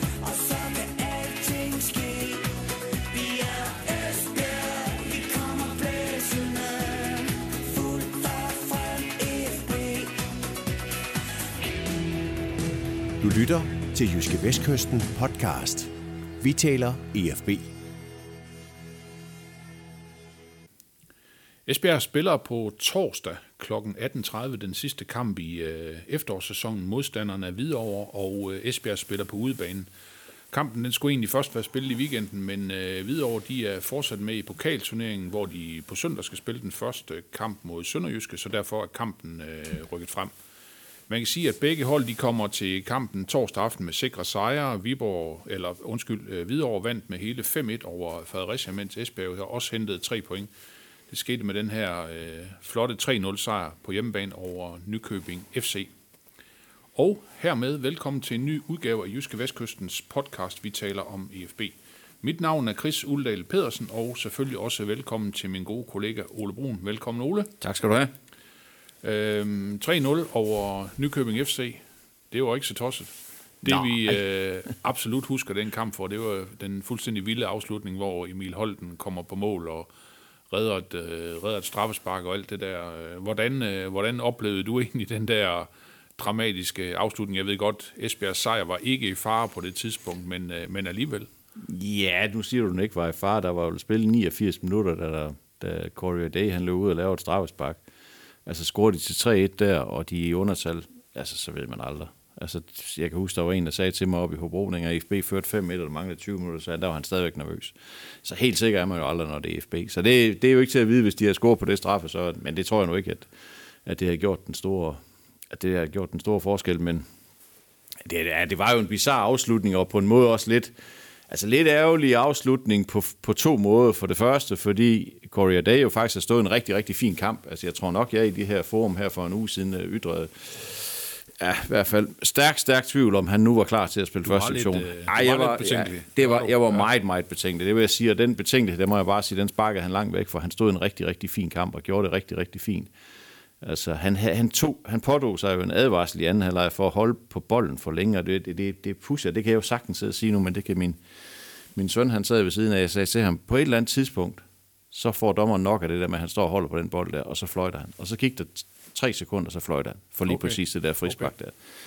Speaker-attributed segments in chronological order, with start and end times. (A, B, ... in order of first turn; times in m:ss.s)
0:00.2-0:10.4 A
0:13.2-0:17.7 B
0:21.7-0:29.9 C
0:30.5-0:40.3 C
0:41.1-0:50.5 C
0:51.1-0:55.9 C
0:57.0-1:07.5 C
1:07.6-1:08.1 D
1:09.0-1:19.9 C
1:13.7-1:14.2 D
1:20.5-1:31.3 C
1:31.6-1:37.8 D
1:38.5-1:53.3 D
1:53.8-1:55.0 D
1:55.5-1:57.0 D
1:58.0-2:00.7 D
2:01.3-2:22.9 D
2:14.2-2:16.9 C
2:23.6-2:31.0 D
2:31.8-2:41.6 D
2:40.3-2:41.3 C